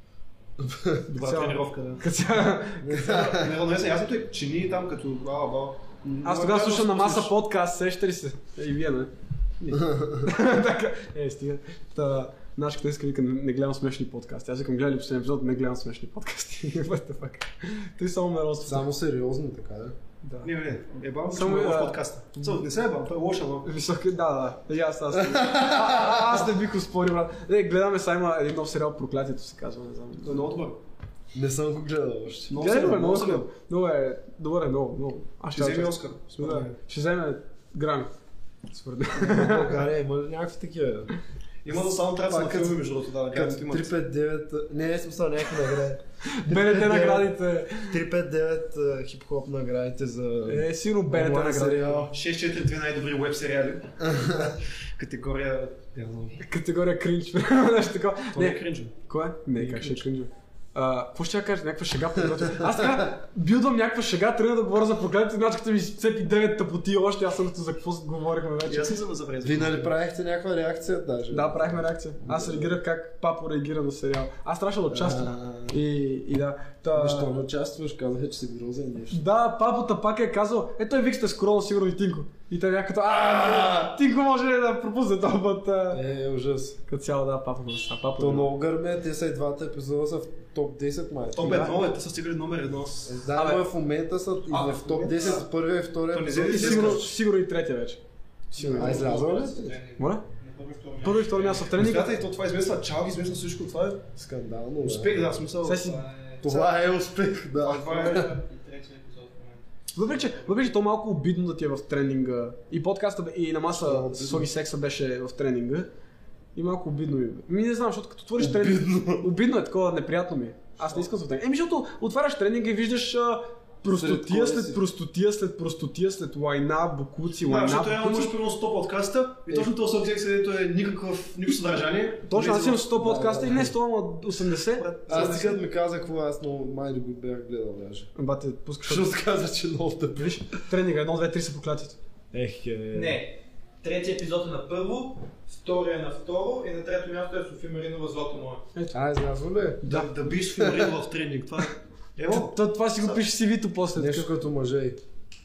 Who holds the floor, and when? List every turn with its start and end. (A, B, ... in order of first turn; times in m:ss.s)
0:00.6-0:01.0 A
0:01.1-0:03.1 B
0:01.1-0:02.0 C
0:02.8-0:03.6 A
0:02.9-0:07.3 C
0:06.2-0:18.9 B
0:09.7-0:10.3 A
0:18.6-0:19.9 A
0:20.2-0:20.5 B
0:20.4-0:23.7 C
0:21.3-0:22.5 B
0:23.6-0:30.5 B
0:25.2-0:26.4 A
0:30.2-0:30.8 C
0:31.3-0:32.5 A
0:32.5-0:33.5 C
0:32.5-0:38.1 B
0:35.5-0:36.7 C
0:38.7-0:39.8 B
0:39.2-0:41.1 A
0:41.6-0:43.9 C
0:42.2-0:52.1 A
0:46.3-0:48.0 B
0:50.4-0:52.1 B
0:52.1-0:56.4 C
0:54.0-0:54.5 A
0:56.4-1:09.0 B
0:58.3-0:58.9 C
0:59.6-1:00.0 C
1:02.3-1:03.0 A
1:08.6-1:09.9 C
1:09.4-1:12.7 A
1:11.3-1:17.3 B
1:14.9-1:15.8 A
1:16.9-1:19.2 A
1:19.1-1:26.0 B
1:25.9-1:26.8 A
1:26.9-1:28.5 B
1:28.2-1:31.8 A
1:31.3-1:33.1 C
1:31.4-1:31.8 B
1:33.0-1:37.1 A
1:33.4-1:33.6 B
1:34.5-1:35.4 D
1:34.6-1:34.9 C
1:36.1-1:37.1 C
1:36.5-1:39.1 B
1:38.6-1:41.7 D
1:38.7-1:39.8 A
1:40.0-1:40.2 B
1:41.0-1:42.1 B
1:41.8-1:44.1 C
1:44.2-1:45.3 A
1:44.8-1:45.9 C
1:45.6-1:46.0 B
1:45.8-1:46.4 D
1:46.4-1:48.3 A
1:46.4-1:46.7 C
1:47.6-1:48.3 C
1:47.8-1:50.6 D
1:49.9-1:55.9 B
1:53.7-1:54.5 A
1:56.5-2:08.3 B
1:58.4-1:59.3 A
2:03.8-2:04.8 A
2:07.5-2:12.9 C
2:12.3-2:15.6 B
2:13.0-2:13.7 A
2:14.8-2:15.5 C
2:15.1-2:18.1 A
2:18.2-2:19.1 B
2:18.8-2:20.5 A
2:20.5-2:22.0 B
2:22.3-2:23.2 A
2:22.9-2:28.6 D
2:28.9-2:30.0 A
2:29.8-2:33.2 C
2:30.5-2:30.9 A
2:32.3-2:34.3 B
2:33.9-2:35.0 A